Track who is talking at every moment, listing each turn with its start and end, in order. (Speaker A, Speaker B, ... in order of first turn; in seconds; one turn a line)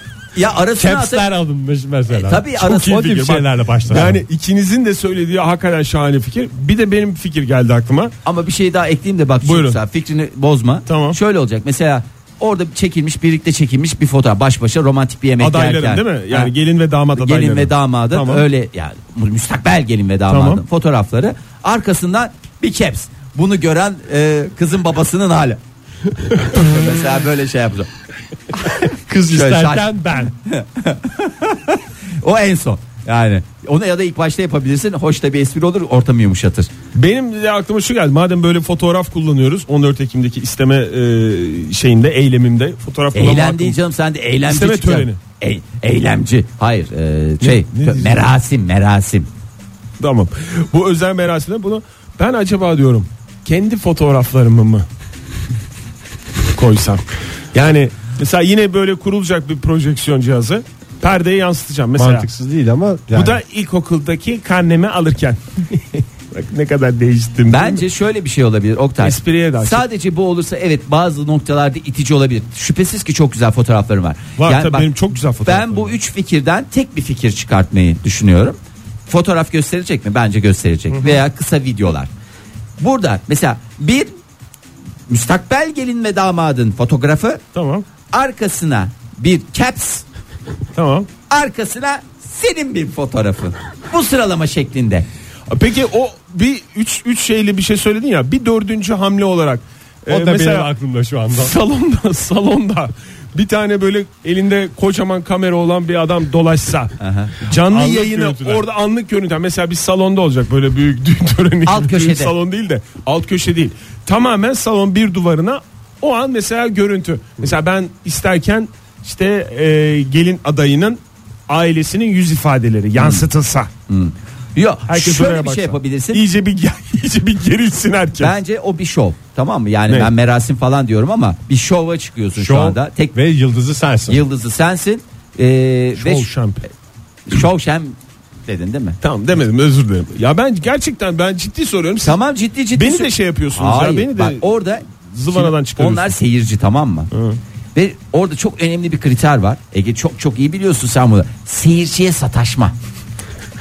Speaker A: 0.3-1.3
Speaker B: 0.8-4.2
Speaker A: 2.1-3.4
Speaker C: 3.9-8.1
Speaker A: 8.2-16.5
Speaker C: 9.4-9.8
Speaker C: 10.9-11.2
Speaker C: 15.4-18.4
Speaker A: 17.2-25.6
Speaker C: 20.3-20.6
Speaker A: 26.4-27.9
Speaker B: 28.6-30.3
Speaker A: 29.3-36.7
Speaker C: 36.9-43.8
Speaker A: 43.1-49.3
Speaker C: 44.5-45.2
Speaker C: 47.4-48.2
Speaker C: 50.0-54.9
Speaker C: 56.5-62.3
Speaker B: 62.0-63.4
Speaker C: 63.1-67.9
Speaker A: 67.5-74.9
Speaker C: 69.0-69.8
Speaker C: 74.4-76.0
Speaker A: 75.5-82.1
Speaker C: 80.9-81.2
Speaker A: 82.8-84.1
Speaker A: 85.1-87.4
Speaker C: 87.5-87.8
Speaker A: 88.1-90.0
Speaker C: 90.8-91.1
Speaker A: 91.3-95.1
Speaker C: 95.5-100.7
Speaker B: 100.1-101.6
Speaker C: 101.3-123.7
Speaker A: 107.0-107.4
Speaker B: 107.6-108.6
Speaker A: 111.7-112.3
Speaker A: 123.0-123.3
Speaker A: 123.9-126.2
Speaker C: 124.9-128.4
Speaker A: 128.2-133.2
Speaker B: 132.4-134.2
Speaker A: 134.1-136.3
Speaker C: 136.0-136.6
Speaker A: 137.3-139.0
Speaker C: 139.0-142.2
Speaker A: 142.0-147.1
Speaker C: 142.7-146.2
Speaker C: 147.1-147.4
Speaker A: 147.8-152.8